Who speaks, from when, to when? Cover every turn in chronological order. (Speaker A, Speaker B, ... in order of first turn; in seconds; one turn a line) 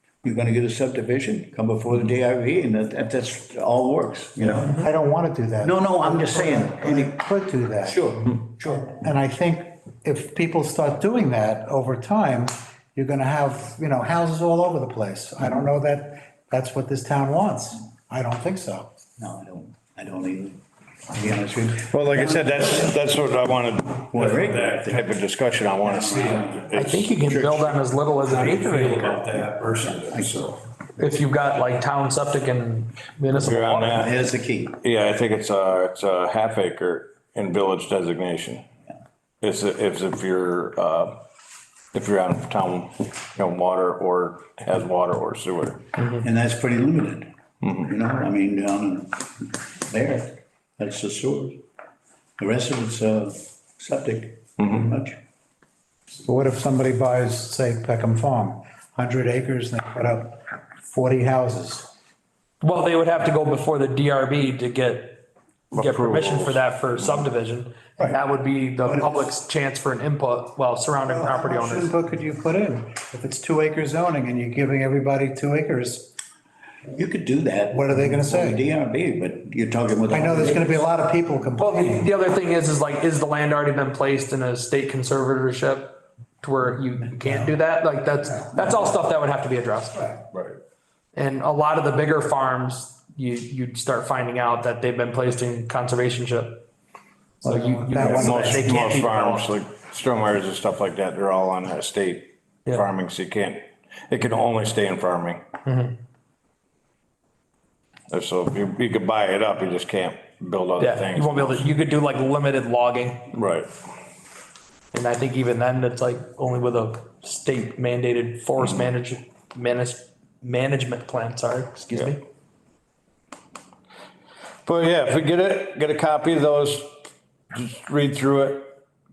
Speaker A: 0.2-4.9
Speaker B: 4.4-18.9
Speaker A: 5.6-7.2
Speaker A: 7.8-9.0
Speaker A: 19.2-23.0
Speaker C: 21.9-30.5
Speaker A: 24.1-25.2
Speaker A: 25.8-26.8
Speaker D: 26.7-29.1
Speaker A: 29.8-30.6
Speaker D: 31.0-33.9
Speaker C: 33.3-34.1
Speaker A: 33.9-34.8
Speaker C: 34.8-38.6
Speaker C: 39.4-41.2
Speaker C: 41.9-45.8
Speaker A: 46.2-51.6
Speaker C: 47.6-47.9
Speaker A: 52.4-55.2
Speaker C: 54.6-54.8
Speaker B: 56.2-61.9
Speaker D: 62.6-71.9
Speaker C: 65.7-67.3
Speaker B: 68.9-69.3
Speaker B: 71.0-76.1
Speaker A: 76.9-80.8
Speaker B: 77.7-78.6
Speaker B: 80.1-82.1
Speaker D: 81.6-90.2
Speaker C: 90.3-90.6
Speaker D: 91.1-96.6
Speaker D: 97.4-99.5
Speaker B: 97.4-98.6
Speaker C: 98.0-105.4
Speaker D: 105.7-105.9
Speaker C: 108.1-111.7
Speaker D: 110.8-113.3
Speaker C: 113.3-113.7
Speaker D: 114.9-122.2
Speaker C: 124.6-127.0
Speaker C: 127.5-128.7